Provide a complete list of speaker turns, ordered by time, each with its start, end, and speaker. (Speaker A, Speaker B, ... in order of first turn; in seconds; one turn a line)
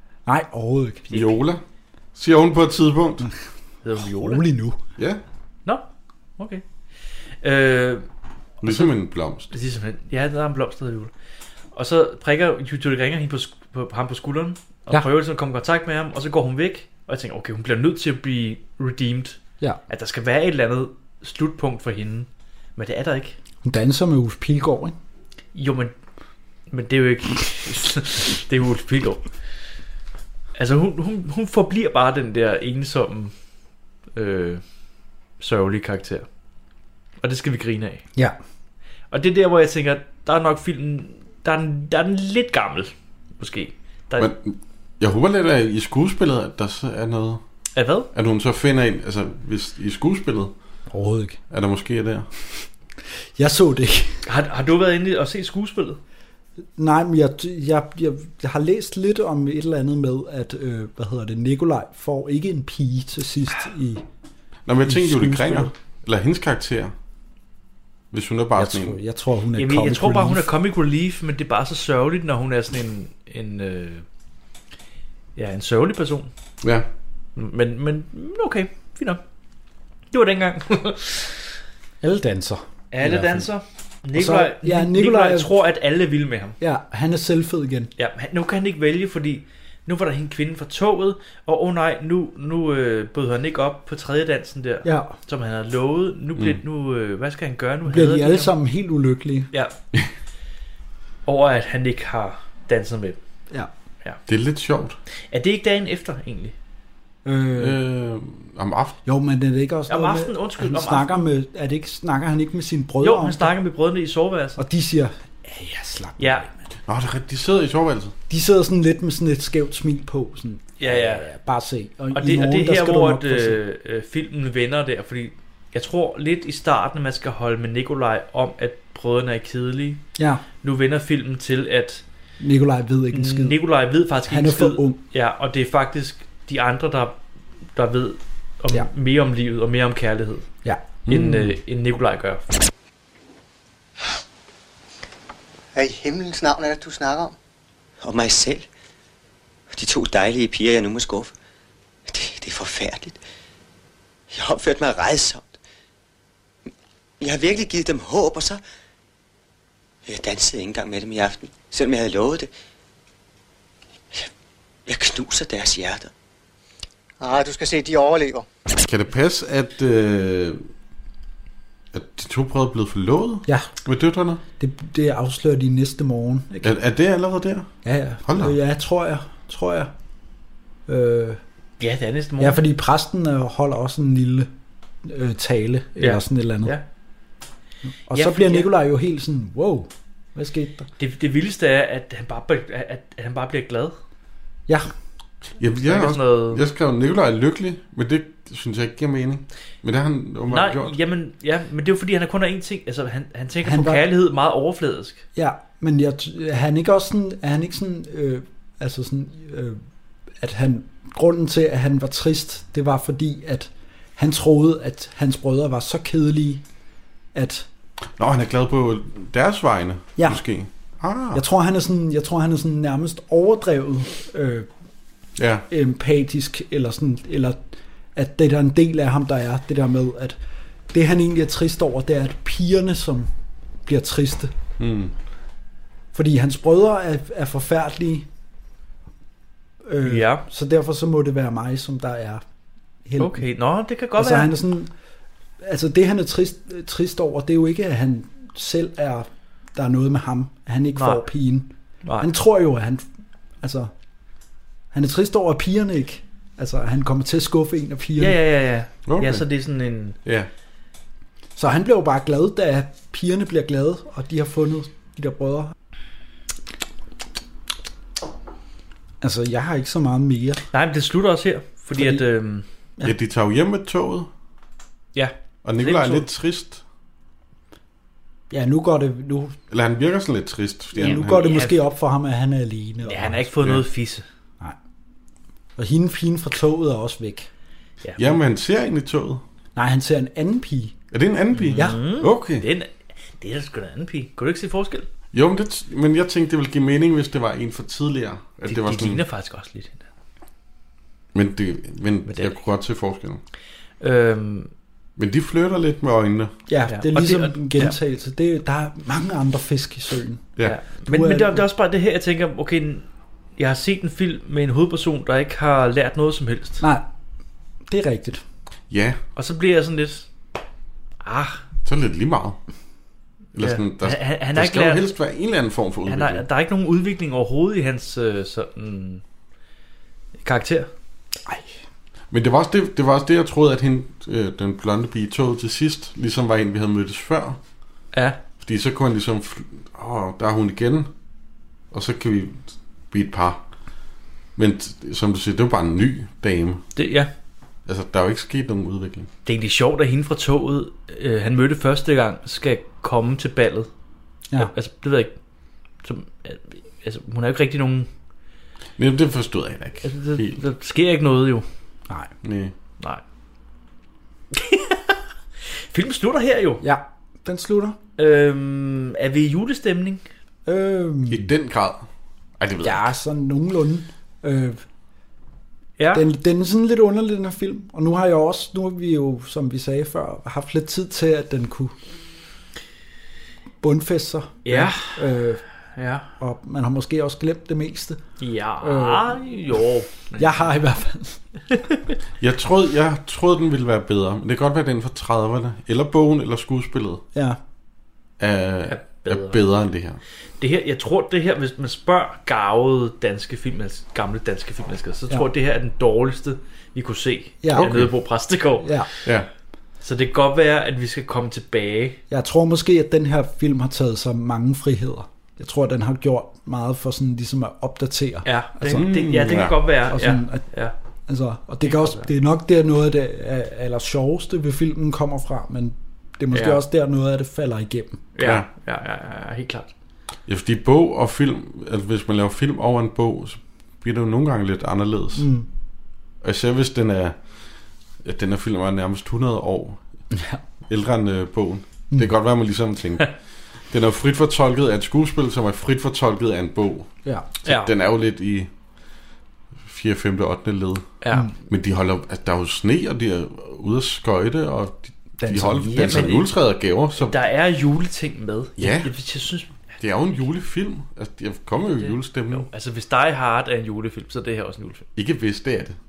Speaker A: 0.2-1.1
Speaker B: 1.1-1.4
Speaker C: 1.1-1.6
Speaker C: 2.1-3.3
Speaker B: 3.8-4.4
Speaker A: 4.2-4.8
Speaker C: 5.0-5.2
Speaker B: 6.4-6.6
Speaker B: 7.4-8.1
Speaker C: 8.6-9.5
Speaker B: 9.5-11.1
Speaker B: 11.7-23.4
Speaker A: 23.6-24.9
Speaker B: 25.5-25.9
Speaker B: 26.7-29.2
Speaker B: 30.5-33.3
Speaker B: 34.1-34.6
Speaker B: 35.4-36.3
Speaker B: 37.2-38.0
Speaker B: 39.1-44.3
Speaker C: 44.2-47.4
Speaker B: 47.7-48.1
Speaker C: 48.1-50.5
Speaker A: 50.9-51.4
Speaker C: 51.5-52.3
Speaker A: 53.4-54.2
Speaker B: 54.2-56.0
Speaker A: 56.8-64.0
Speaker C: 64.7-66.9
Speaker A: 64.8-65.7
Speaker C: 68.1-69.0
Speaker A: 68.5-70.5
Speaker B: 69.5-74.0
Speaker B: 75.3-76.3
Speaker C: 76.6-76.9
Speaker B: 77.3-79.2
Speaker B: 80.1-81.4
Speaker A: 82.0-83.4
Speaker B: 82.9-86.6
Speaker A: 84.2-85.5
Speaker A: 86.6-87.9
Speaker B: 88.0-98.5
Speaker A: 94.8-95.2
Speaker A: 97.9-99.5
Speaker B: 101.2-103.2
Speaker C: 104.3-105.0
Speaker B: 105.3-106.5
Speaker A: 107.2-107.8
Speaker C: 107.5-109.0
Speaker A: 109.0-113.5
Speaker B: 109.9-111.3
Speaker B: 113.0-114.6
Speaker A: 114.6-116.5
Speaker B: 116.2-116.5
Speaker C: 116.9-118.1
Speaker A: 118.3-123.6
Speaker B: 120.8-121.3
Speaker B: 122.1-130.0
Speaker A: 130.2-130.4
Speaker B: 130.6-132.0
Speaker A: 132.4-133.6
Speaker B: 133.1-137.2
Speaker A: 134.3-135.0
Speaker B: 137.7-140.5
Speaker A: 140.6-140.9
Speaker C: 141.1-141.5
Speaker B: 141.1-142.6
Speaker D: 145.7-147.3
Speaker E: 148.0-148.7
Speaker E: 149.7-151.3
Speaker E: 152.1-153.2
Speaker E: 154.3-155.6
Speaker E: 157.2-158.6
Speaker E: 160.1-162.5
Speaker E: 164.8-166.1
Speaker D: 167.2-168.4
Speaker C: 168.8-170.6
Speaker C: 171.9-174.4
Speaker A: 174.6-176.7
Speaker C: 176.6-177.7
Speaker A: 177.8-179.9
Speaker C: 178.2-178.6
Speaker A: 180.9-181.4
Speaker B: 181.8-182.6
Speaker A: 182.4-184.5
Speaker A: 185.0-186.7
Speaker B: 186.0-186.8
Speaker A: 188.1-190.9
Speaker B: 188.1-188.7
Speaker B: 191.0-193.9
Speaker C: 195.6-201.0
Speaker B: 195.7-196.6
Speaker B: 200.5-205.2
Speaker A: 203.6-204.1
Speaker A: 205.3-209.8
Speaker A: 210.4-216.6
Speaker A: 217.3-217.7
Speaker C: 218.2-221.4
Speaker A: 221.3-224.7
Speaker C: 225.4-225.7
Speaker A: 225.7-230.4
Speaker A: 230.9-233.3
Speaker A: 233.8-234.5
Speaker C: 234.8-235.1
Speaker A: 236.1-238.2
Speaker A: 239.8-242.4
Speaker B: 240.0-240.4
Speaker A: 243.1-243.4
Speaker B: 243.2-244.5
Speaker A: 244.2-244.9
Speaker A: 245.6-253.0
Speaker B: 250.9-251.2
Speaker B: 252.0-252.3
Speaker A: 253.6-253.9
Speaker A: 254.9-258.4
Speaker B: 258.2-260.2
Speaker C: 259.1-259.4
Speaker C: 260.2-260.5
Speaker A: 261.6-265.7
Speaker A: 269.2-270.6
Speaker B: 270.7-272.6
Speaker A: 272.0-272.2
Speaker C: 273.0-274.3
Speaker B: 275.1-276.2
Speaker C: 275.6-276.8
Speaker A: 278.5-279.6
Speaker C: 279.7-281.6
Speaker A: 280.9-283.4
Speaker B: 281.1-281.8
Speaker B: 283.1-284.2
Speaker A: 285.8-287.5
Speaker B: 288.0-288.3
Speaker C: 288.2-289.4
Speaker A: 289.8-290.9
Speaker C: 291.1-292.6
Speaker B: 291.5-295.1
Speaker C: 295.3-299.2
Speaker B: 298.7-300.0
Speaker C: 301.3-303.4
Speaker B: 302.3-302.6
Speaker B: 304.0-304.7
Speaker C: 305.2-306.5
Speaker A: 306.7-310.4
Speaker B: 306.9-307.9
Speaker B: 310.6-316.8
Speaker A: 311.0-311.6
Speaker A: 316.8-317.1
Speaker A: 317.9-318.4
Speaker C: 318.9-319.2
Speaker B: 319.4-320.3
Speaker B: 321.2-321.6
Speaker C: 321.8-322.6
Speaker C: 323.5-326.4
Speaker B: 323.6-325.1
Speaker B: 326.1-329.2
Speaker B: 330.4-330.9
Speaker C: 332.3-337.6
Speaker B: 338.1-338.4
Speaker C: 338.6-341.1
Speaker C: 341.9-343.6
Speaker C: 344.6-346.8
Speaker B: 346.9-347.3
Speaker C: 347.9-349.3
Speaker B: 349.4-353.9
Speaker B: 354.6-355.3
Speaker B: 356.0-358.1
Speaker C: 359.0-360.6
Speaker B: 360.0-361.6
Speaker C: 362.4-362.7
Speaker B: 364.5-365.2
Speaker B: 365.7-366.8
Speaker A: 366.8-368.0
Speaker B: 368.2-370.2
Speaker A: 370.6-371.5
Speaker C: 371.3-372.1
Speaker C: 372.6-373.1
Speaker A: 372.8-374.8
Speaker B: 376.0-376.2
Speaker A: 376.1-381.9
Speaker A: 383.8-385.6
Speaker B: 384.6-385.2
Speaker B: 385.9-386.3
Speaker A: 386.4-388.2
Speaker B: 388.4-390.5
Speaker A: 388.8-389.4
Speaker A: 390.4-391.4
Speaker C: 392.4-397.2
Speaker C: 398.4-400.2
Speaker B: 398.9-399.6
Speaker B: 400.6-409.3
Speaker A: 407.6-407.9
Speaker C: 407.7-408.1
Speaker A: 408.8-409.1
Speaker B: 410.0-412.2
Speaker A: 412.3-419.1
Speaker B: 418.4-420.9
Speaker C: 418.9-419.8
Speaker A: 420.1-420.7
Speaker A: 421.3-428.2
Speaker B: 421.8-422.3
Speaker B: 426.5-426.8
Speaker B: 428.3-429.9
Speaker C: 428.4-428.6
Speaker C: 430.5-435.5
Speaker A: 435.4-435.6
Speaker C: 436.4-437.4
Speaker C: 438.2-440.0
Speaker A: 440.3-440.6
Speaker C: 440.9-443.4
Speaker C: 443.9-447.1
Speaker C: 447.6-448.7
Speaker B: 447.6-447.9
Speaker C: 449.9-457.4
Speaker B: 451.2-451.5
Speaker A: 455.4-456.3
Speaker B: 456.0-456.5
Speaker B: 457.1-459.8
Speaker C: 458.8-459.1
Speaker C: 460.0-462.7
Speaker B: 461.8-465.1
Speaker C: 465.1-465.9